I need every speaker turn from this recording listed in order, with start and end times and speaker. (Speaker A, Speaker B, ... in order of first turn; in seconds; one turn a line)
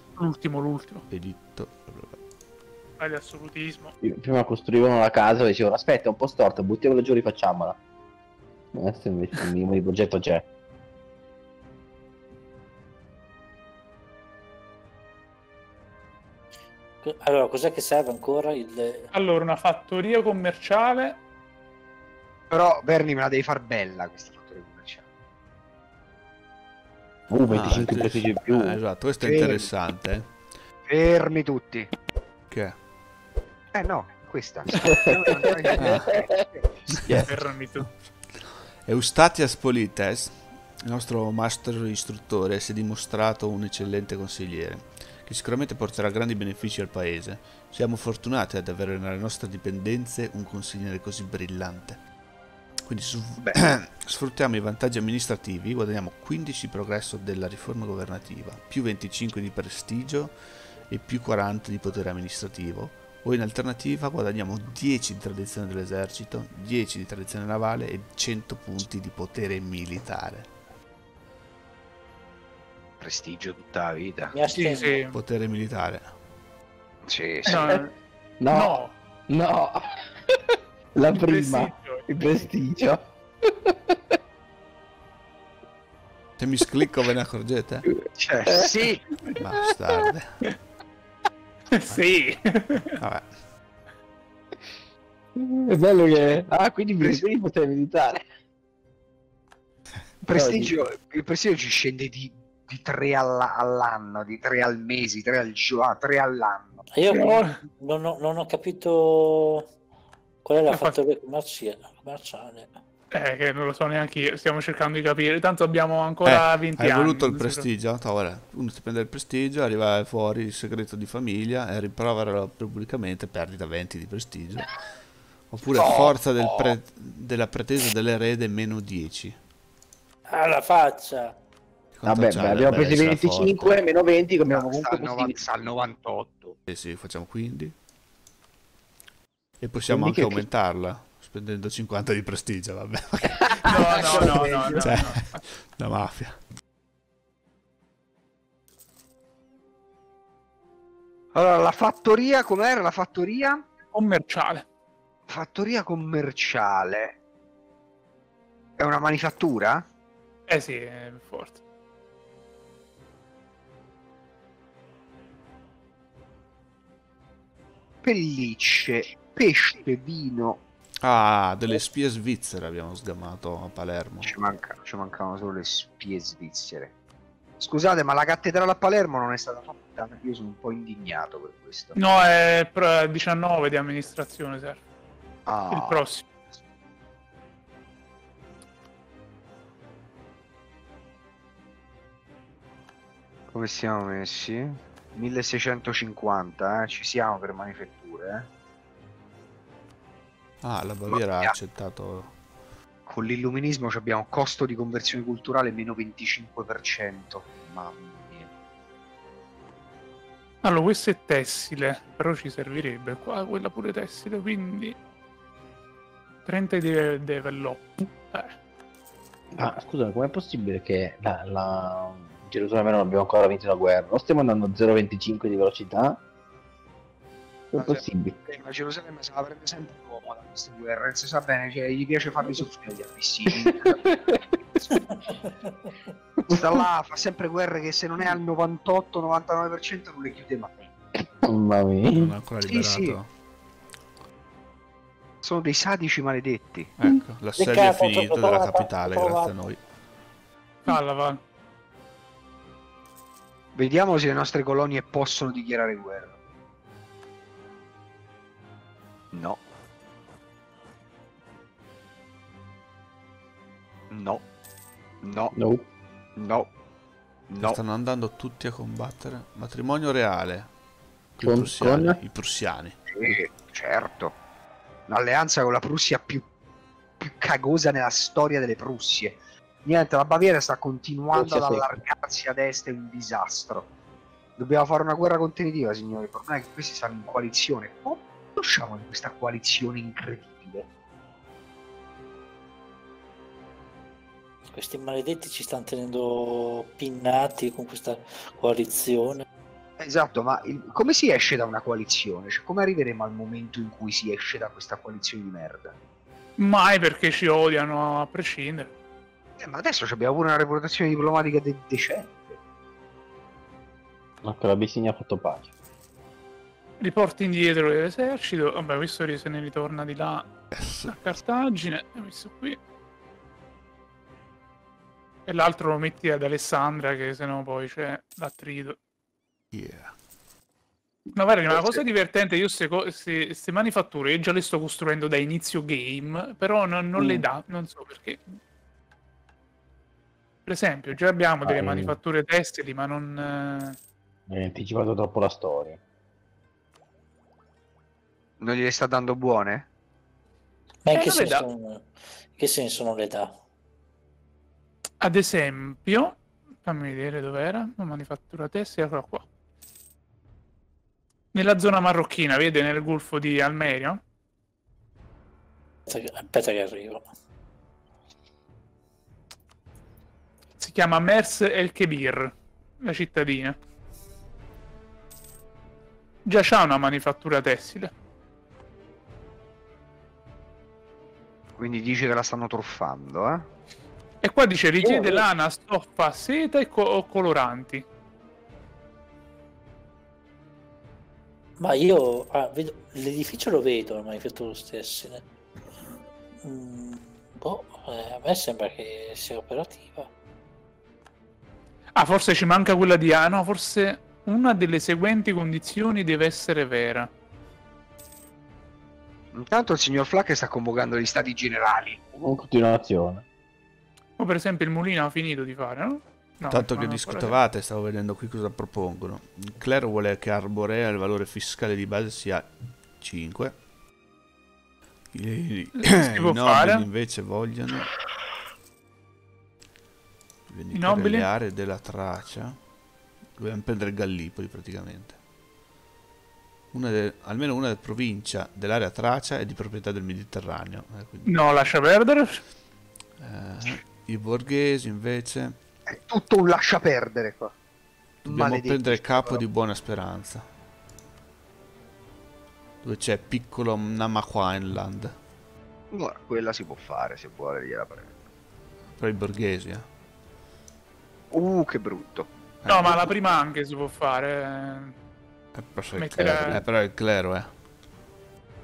Speaker A: 0.2-1.0
Speaker B: 1.1-2.2
Speaker A: 3.0-3.9
Speaker C: 4.0-7.8
Speaker C: 8.7-10.4
Speaker D: 17.0-19.1
Speaker A: 19.1-21.2
Speaker E: 22.5-25.0
Speaker C: 27.3-28.8
Speaker B: 27.5-30.3
Speaker E: 29.2-29.7
Speaker E: 30.9-31.9
Speaker B: 32.5-32.8
Speaker E: 33.7-36.9
Speaker C: 34.7-36.4
Speaker B: 35.8-36.1
Speaker B: 36.9-37.2
Speaker C: 37.0-37.3
Speaker A: 37.3-37.9
Speaker B: 38.8-52.0
Speaker B: 52.9-60.4
Speaker B: 60.9-70.5
Speaker E: 73.0-74.3
Speaker D: 74.3-75.0
Speaker A: 74.5-75.2
Speaker B: 75.1-76.1
Speaker E: 77.1-77.6
Speaker C: 77.5-77.8
Speaker A: 77.5-77.9
Speaker C: 78.4-84.2
Speaker A: 78.5-78.9
Speaker A: 81.1-82.0
Speaker B: 86.4-87.9
Speaker C: 87.9-88.7
Speaker E: 88.1-89.0
Speaker B: 89.3-90.3
Speaker A: 91.7-92.9
Speaker B: 93.0-93.3
Speaker C: 95.4-98.2
Speaker E: 97.0-97.3
Speaker E: 100.2-106.8
Speaker C: 100.3-100.8
Speaker D: 106.9-109.7
Speaker A: 107.1-107.5
Speaker D: 110.4-112.8
Speaker A: 110.7-111.0
Speaker A: 113.1-117.7
Speaker B: 116.2-124.8
Speaker B: 125.5-129.4
Speaker E: 125.7-126.8
Speaker D: 130.3-131.3
Speaker B: 131.9-133.8
Speaker C: 132.1-135.4
Speaker E: 134.5-136.6
Speaker B: 136.7-137.7
Speaker B: 139.6-143.7
Speaker C: 139.9-140.5
Speaker C: 143.4-144.8
Speaker A: 143.6-145.4
Speaker E: 143.8-144.7
Speaker B: 144.7-146.4
Speaker E: 151.3-153.6
Speaker A: 153.9-154.6
Speaker E: 155.3-157.2
Speaker E: 158.8-159.8
Speaker A: 160.5-161.6
Speaker E: 168.0-170.6
Speaker B: 171.0-174.3
Speaker E: 174.2-176.9
Speaker E: 177.6-182.0
Speaker A: 181.9-184.8
Speaker E: 185.4-186.1
Speaker A: 185.7-186.2
Speaker E: 193.5-198.5
Speaker B: 200.6-202.3
Speaker E: 201.1-201.5
Speaker E: 203.1-208.5
Speaker A: 210.6-215.0
Speaker A: 216.4-218.5
Speaker C: 219.5-226.2
Speaker C: 227.7-228.4
Speaker E: 227.7-234.2
Speaker D: 234.9-235.9
Speaker E: 236.5-240.9
Speaker C: 236.5-236.8
Speaker C: 241.2-242.3
Speaker B: 242.1-243.3
Speaker E: 242.6-243.2
Speaker E: 245.4-246.9
Speaker B: 247.0-249.8
Speaker D: 247.6-249.6
Speaker A: 250.8-251.4
Speaker E: 253.7-256.4
Speaker E: 259.3-259.6
Speaker E: 264.1-264.4
Speaker E: 265.2-265.5
Speaker C: 265.5-265.9
Speaker E: 266.4-266.7
Speaker E: 267.5-267.8
Speaker B: 267.6-270.7
Speaker B: 271.4-273.0
Speaker C: 271.4-272.2
Speaker E: 273.1-274.4
Speaker E: 275.1-276.4
Speaker E: 277.2-283.9
Speaker C: 281.3-281.9
Speaker E: 284.6-290.9
Speaker D: 294.7-299.4
Speaker E: 300.0-306.0
Speaker A: 306.6-308.9
Speaker E: 309.6-312.6
Speaker C: 314.4-315.7
Speaker A: 317.0-320.5
Speaker B: 320.7-321.2
Speaker A: 321.1-322.8
Speaker A: 325.5-329.0
Speaker B: 329.7-330.1
Speaker A: 331.3-338.5
Speaker C: 337.2-337.4
Speaker A: 340.7-344.0
Speaker C: 341.6-342.2
Speaker C: 344.5-346.0
Speaker E: 348.6-349.9
Speaker D: 351.0-353.6
Speaker A: 351.1-351.7
Speaker A: 355.2-359.5
Speaker A: 361.5-364.2
Speaker D: 366.1-367.2
Speaker A: 370.8-373.8
Speaker A: 376.4-378.1
Speaker E: 381.8-383.7
Speaker A: 384.4-388.0
Speaker D: 385.0-385.5
Speaker D: 391.8-395.5
Speaker D: 396.6-400.3
Speaker A: 402.2-407.3
Speaker E: 409.5-412.2
Speaker C: 412.4-413.4
Speaker A: 414.4-417.6
Speaker B: 416.7-423.8
Speaker B: 425.3-428.1
Speaker A: 426.0-427.1
Speaker B: 430.7-432.8
Speaker A: 430.9-431.5
Speaker B: 433.6-435.4
Speaker B: 436.9-441.6
Speaker A: 441.5-442.6
Speaker B: 443.4-445.8
Speaker E: 446.1-447.7
Speaker B: 448.4-450.7
Speaker E: 448.5-449.6
Speaker B: 453.0-455.4
Speaker E: 456.1-458.3
Speaker B: 459.2-460.1
Speaker E: 461.5-462.5
Speaker B: 462.8-463.3
Speaker A: 462.9-465.1
Speaker B: 465.8-467.7
Speaker A: 466.1-466.8
Speaker C: 466.4-466.7